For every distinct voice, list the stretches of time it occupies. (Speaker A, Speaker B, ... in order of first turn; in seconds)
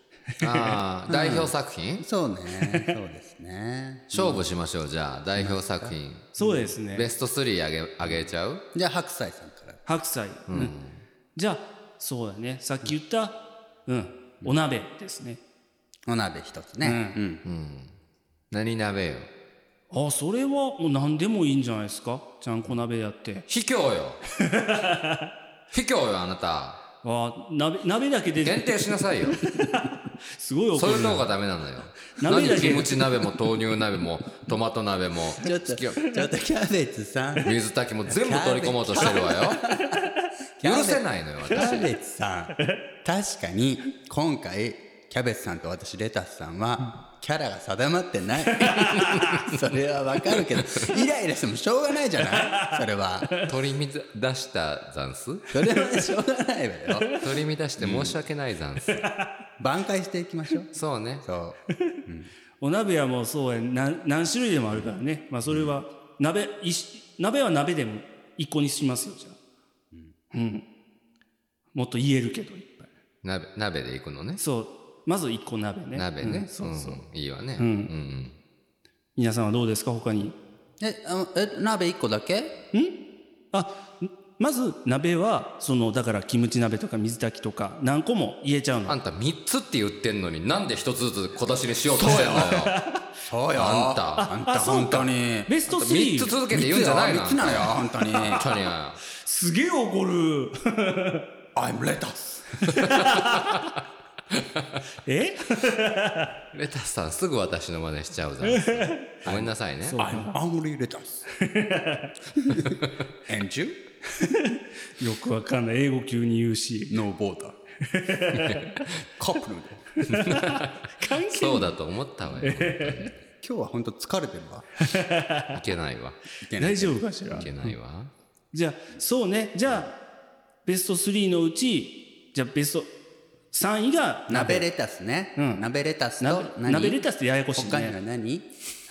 Speaker A: 0.4-2.0, 4.1-6.3, 6.9-8.6, 10.5-11.0, 17.4-17.9, 18.5-19.3, 23.5-24.2, 25.7-26.8, 28.4-29.4, 30.7-36.1, 37.4-39.6, 40.6-41.9, 53.4-55.5, 57.2-59.1, 60.7-61.2, 73.2-74.4, 75.9-78.3, 88.8-92.8, 93.5-94.2, 95.7-97.8, 98.3-99.0, 103.0-103.5, 106.5-110.0, 120.1-123.2, 125.5-126.2, 127.3-128.1
Speaker B: 1.1-4.5, 5.3-6.7, 8.7-9.8, 16.1-17.4, 35.4-37.5, 38.0-40.0, 40.6-53.4, 55.5-57.1, 57.8-58.2, 59.6-62.3, 65.5-65.8, 80.8-82.6, 91.9-92.7, 93.2-95.5, 96.5-98.4, 101.5-102.7, 109.2-111.3, 112.4-113.8, 116.9-117.6, 119.2-119.9, 123.4-124.7, 126.4-127.1, 134.3-138.5
Speaker C: 2.6-2.9, 6.3-7.1, 9.8-10.7, 11.3-15.4, 16.8-17.2, 19.9-23.5, 24.4-25.3, 27.0-31.3, 32.1-33.1, 48.6-49.3, 52.3-53.5, 58.9-59.2, 62.6-69.4, 70.3-70.7, 71.7-72.9, 74.4-77.0, 77.6-77.9, 79.2-80.4, 83.5-89.0, 92.0-93.0, 94.2-96.4, 98.0-98.5, 99.1-101.2, 102.7-103.5, 105.0-106.3, 108.4-109.2, 109.8-110.4, 111.4-112.1, 114.3-117.0, 117.8-118.8, 120.1-121.8, 122.4-123.1, 124.9-125.5, 126.6-127.7, 128.5-130.0, 130.6-132.9, 133.5-134.7, 135.3-135.6, 136.2-138.0